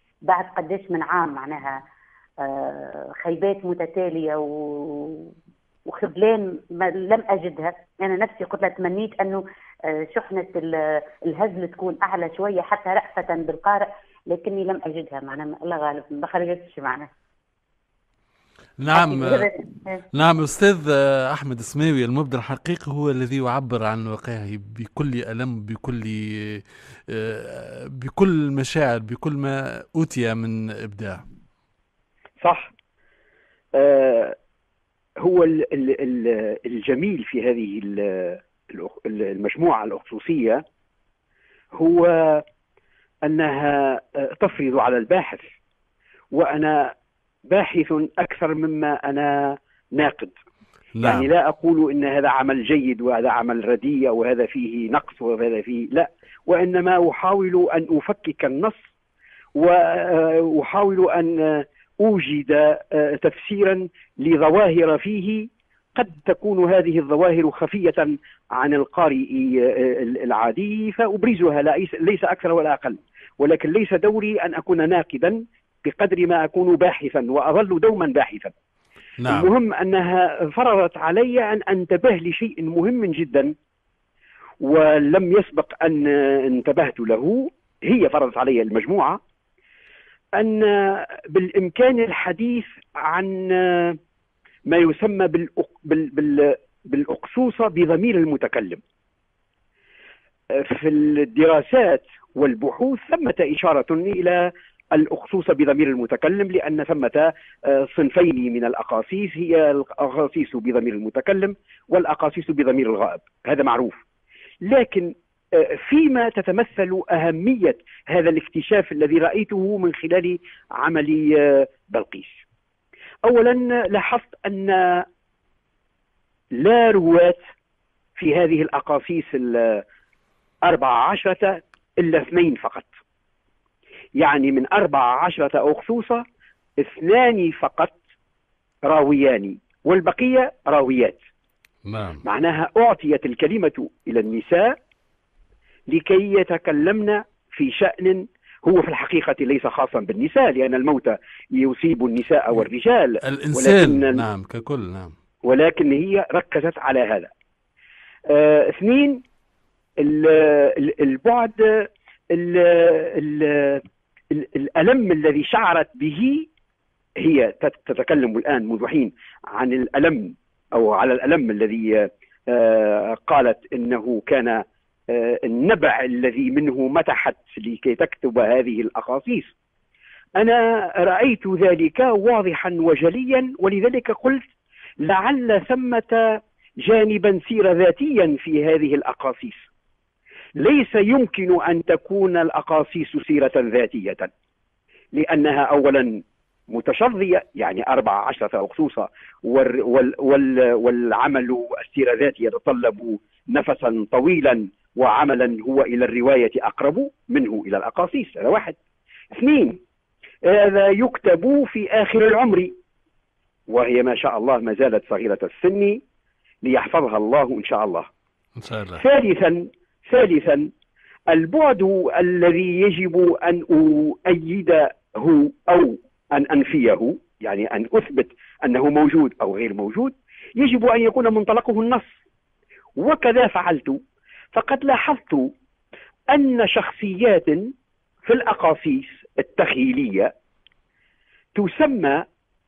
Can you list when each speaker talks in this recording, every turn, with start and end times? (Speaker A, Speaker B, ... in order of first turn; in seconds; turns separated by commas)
Speaker A: 0.2-1.8, Speaker A: 2.4-5.3, Speaker A: 5.8-17.1, Speaker B: 18.8-19.5, Speaker A: 18.9-20.0, Speaker B: 20.1-31.2, Speaker C: 32.4-32.7, Speaker C: 33.7-34.4, Speaker C: 35.2-40.6, Speaker C: 41.7-42.4, Speaker C: 43.2-45.5, Speaker C: 46.3-46.9, Speaker C: 47.5-50.4, Speaker B: 51.0-51.3, Speaker C: 51.0-58.8, Speaker C: 59.5-78.5, Speaker B: 79.2-79.5, Speaker C: 79.3-83.5, Speaker C: 84.6-89.2, Speaker C: 90.3-94.0, Speaker C: 94.7-98.8, Speaker C: 100.5-114.0, Speaker C: 114.6-122.4, Speaker C: 123.2-125.0, Speaker C: 126.5-127.4, Speaker C: 128.2-129.8, Speaker C: 130.6-132.9, Speaker C: 134.2-136.2, Speaker C: 136.8-137.9, Speaker C: 138.8-141.2, Speaker B: 141.8-142.2, Speaker C: 142.2-144.8, Speaker C: 145.9-154.2, Speaker B: 153.2-155.1, Speaker C: 155.4-157.3, Speaker C: 158.3-159.2, Speaker C: 160.0-166.5, Speaker C: 167.2-179.5, Speaker C: 180.4-184.5, Speaker C: 185.0-189.7, Speaker C: 190.6-194.3, Speaker C: 195.1-208.8, Speaker C: 209.3-209.8, Speaker C: 210.4-212.7, Speaker C: 213.7-216.0, Speaker C: 216.6-218.1, Speaker B: 218.6-219.0, Speaker C: 218.9-220.7, Speaker C: 221.3-232.1, Speaker C: 233.0-234.0, Speaker C: 234.5-235.5, Speaker C: 236.3-237.7, Speaker C: 238.2-240.3, Speaker C: 241.5-242.2